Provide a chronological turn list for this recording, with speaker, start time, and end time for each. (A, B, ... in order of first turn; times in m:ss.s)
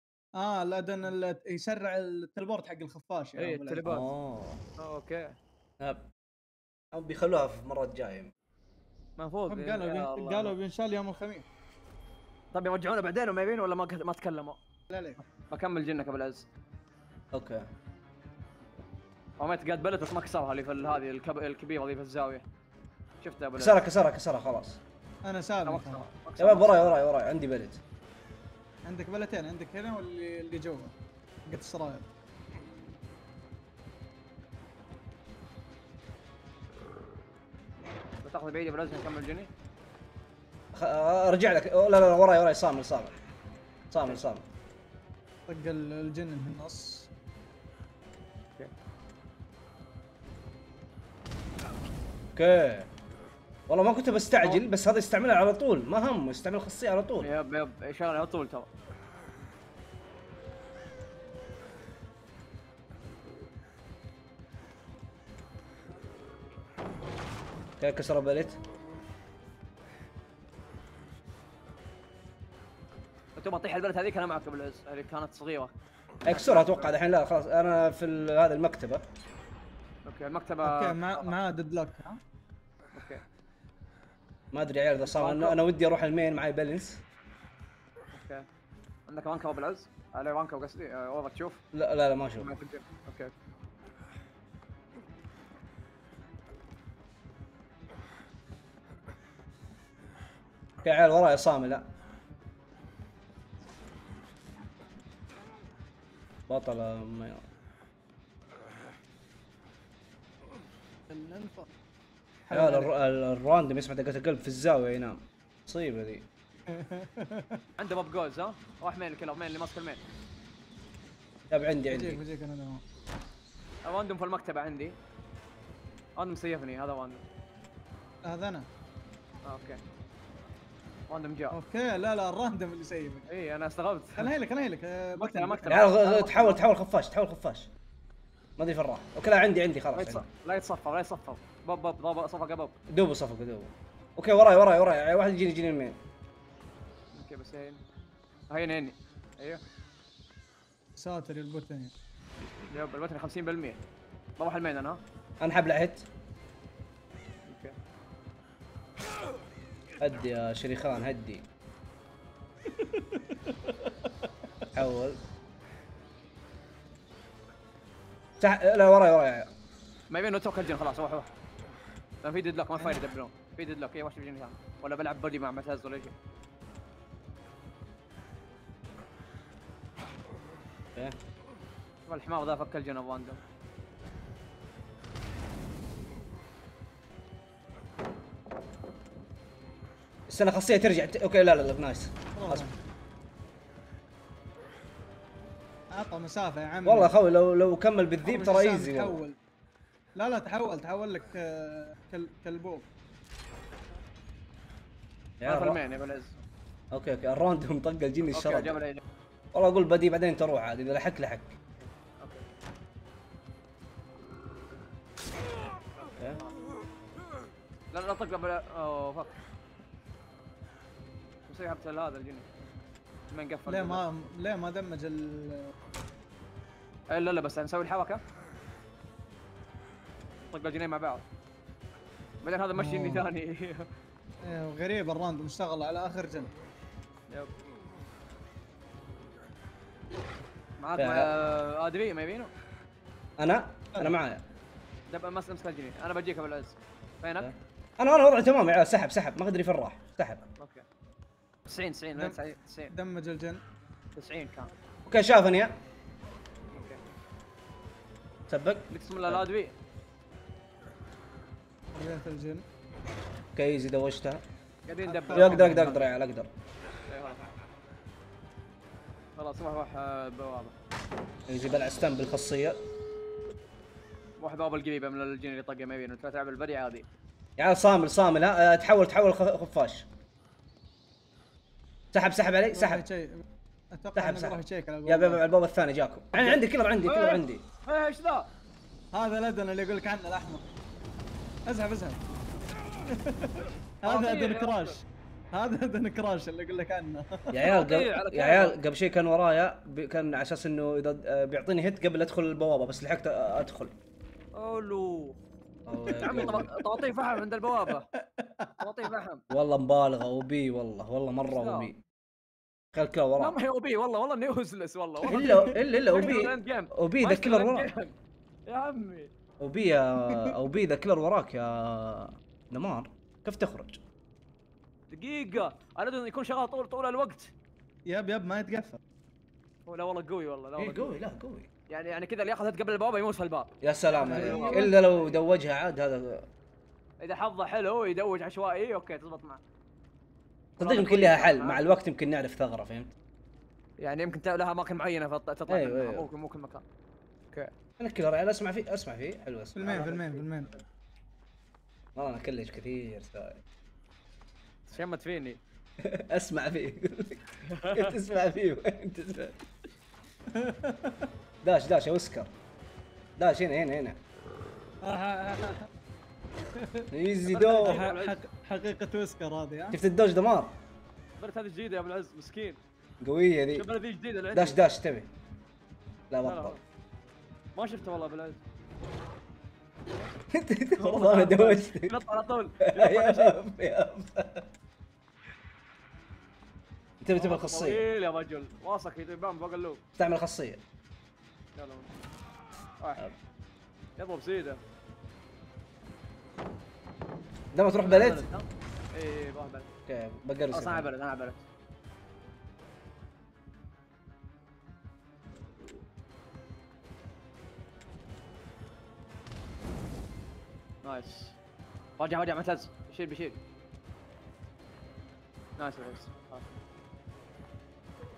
0:00.4-0:03.9 A
0:03.4-0:04.1 B
0:03.8-0:04.6 C
0:04.8-0:05.4 B
0:05.8-0:06.1 C
0:06.9-0:08.3 C
0:09.2-0:10.6 B
0:09.5-0:11.5 A
0:12.5-0:14.6 B
0:14.9-0:15.2 A
0:15.2-0:16.5 B
0:17.3-0:17.7 C
0:19.4-0:22.5 B
0:23.2-0:23.8 B
0:23.6-0:24.8 C
0:25.2-0:26.1 A
0:25.7-0:27.0 B
0:26.4-0:27.8 C
0:28.8-0:31.0 A
0:31.5-0:32.1 A
0:38.2-0:39.5 B
0:40.7-0:43.1 C
0:43.9-0:44.4 C
0:45.5-0:47.1 A
0:52.4-0:52.9 C
0:53.7-0:57.3 C
0:57.2-0:58.7 B
1:07.8-1:08.6 C
1:13.4-1:15.7 B
1:16.2-1:19.0 C
1:16.3-1:17.0 B
1:20.0-1:21.3 B
1:20.6-1:22.2 A
1:22.9-1:23.2 B
1:24.5-1:27.0 C
1:25.0-1:25.6 B
1:28.1-1:28.5 B
1:29.1-1:31.6 B
1:31.7-1:32.5 C
1:32.4-1:33.3 B
1:40.8-1:41.9 C
1:46.5-1:47.4 C
1:51.1-1:51.7 A
1:52.5-1:52.9 A
1:52.5-1:56.2 C
1:56.7-1:57.6 A
1:57.8-2:00.0 B
2:01.5-2:02.2 C
2:01.9-2:02.8 A
2:03.8-2:05.0 B
2:06.2-2:07.2 B
2:08.2-2:08.7 A
2:09.5-2:09.8 B
2:11.1-2:11.6 B
2:11.5-2:13.3 A
2:13.3-2:14.3 B
2:14.2-2:15.9 A
2:15.2-2:16.6 B
2:15.7-2:17.7 C
2:18.6-2:20.2 C
2:20.0-2:22.8 B
2:22.9-2:26.0 C
2:27.1-2:27.8 B
2:28.5-2:29.6 B
2:31.0-2:31.9 A
2:32.7-2:33.8 B
2:34.4-2:35.0 B
2:35.4-2:36.0 C
2:37.5-2:37.8 B
2:40.0-2:41.4 C
2:42.8-2:44.7 A
2:44.7-2:45.2 C
2:48.4-2:49.5 C
2:50.1-2:51.3 B
2:52.2-2:56.1 B
3:02.1-3:03.4 B
3:10.3-3:12.6 C
3:12.4-3:12.7 A
3:15.9-3:17.1 A
3:16.8-3:19.2 C
3:18.2-3:19.4 A
3:20.2-3:22.9 A
3:25.4-3:25.8 C
3:25.4-3:26.4 B
3:26.9-3:28.8 C
3:28.3-3:29.0 B
3:29.5-3:31.6 C
3:31.8-3:32.5 B
3:36.1-3:36.5 B
3:37.9-3:39.4 B
3:41.5-3:42.5 B
3:43.3-3:44.0 B
3:43.7-3:45.7 A
3:47.1-3:48.2 B
3:50.4-3:51.2 B
3:52.4-3:53.9 B
3:52.8-3:53.3 A
3:54.4-3:56.5 A
4:00.8-4:02.5 B
4:01.0-4:01.3 C
4:03.4-4:04.4 C
4:05.1-4:07.5 B
4:07.4-4:10.4 C
4:10.6-4:10.8 B
4:11.7-4:12.9 B
4:12.9-4:13.6 A
4:14.2-4:14.7 B
4:15.1-4:15.7 C
4:16.7-4:17.0 B
4:18.5-4:19.4 C
4:18.9-4:19.8 B
4:21.9-4:22.6 A
4:23.6-4:24.4 C
4:24.9-4:25.6 B
4:25.1-4:26.1 A
4:25.3-4:26.5 C
4:27.1-4:27.4 B
4:29.4-4:30.8 B
4:31.5-4:32.8 C
4:34.4-4:37.1 B
4:37.6-4:40.1 C
4:42.1-4:43.0 C
4:42.7-4:45.4 A
4:44.2-4:47.6 C
4:47.0-4:48.5 B
4:49.1-4:50.6 A
4:51.7-4:52.2 A
4:53.0-4:57.5 A
4:54.0-4:55.0 B
4:57.5-5:04.0 C
4:57.6-4:58.8 B
5:04.6-5:05.4 B
5:05.9-5:06.7 C
5:06.0-5:08.1 B
5:08.2-5:08.9 A
5:08.8-5:09.4 B
5:09.5-5:12.0 C
5:11.5-5:11.9 B
5:12.9-5:13.6 C
5:13.4-5:18.1 B
5:15.2-5:15.8 A
5:15.3-5:17.9 C
5:18.7-5:19.3 B
5:19.6-5:24.0 C
5:20.3-5:20.5 A
5:25.1-5:27.5 B
5:28.1-5:29.0 A
5:29.9-5:31.1 B
5:30.8-5:31.7 C
5:31.9-5:35.4 B
5:33.8-5:36.5 C
5:34.2-5:34.9 A
5:37.2-5:39.6 B
5:40.8-5:41.9 B
5:40.8-5:43.1 C
5:44.0-5:46.8 B
5:45.7-5:46.2 C
5:48.0-5:50.3 C
5:49.8-5:50.7 A
5:49.9-5:50.2 B
5:52.2-5:53.6 C
5:54.9-5:55.6 B
5:56.0-5:59.6 C
5:57.6-5:58.1 B
6:00.5-6:01.3 A
6:01.6-6:02.5 C
6:03.4-6:04.2 C
6:05.0-6:05.9 A
6:06.7-6:07.1 A
6:07.1-6:08.0 C
6:07.5-6:08.4 B
6:07.8-6:10.0 A
6:09.9-6:10.7 C
6:11.4-6:12.8 B
6:13.2-6:13.9 C
6:13.8-6:14.8 B
6:14.5-6:15.3 C
6:16.3-6:16.8 C
6:16.4-6:16.8 B
6:17.8-6:18.6 B
6:20.5-6:22.2 C
6:21.0-6:23.6 B
6:22.8-6:24.7 C
6:27.2-6:28.1 C
6:27.4-6:30.0 B
6:30.2-6:30.8 C
6:31.8-6:32.1 B
6:33.0-6:33.3 B
6:34.2-6:34.8 B
6:37.7-6:38.5 C
6:38.0-6:39.9 B
6:40.1-6:41.1 C
6:40.7-6:41.6 B
6:51.0-6:51.6 B
6:52.2-6:53.6 B
6:55.8-6:56.8 B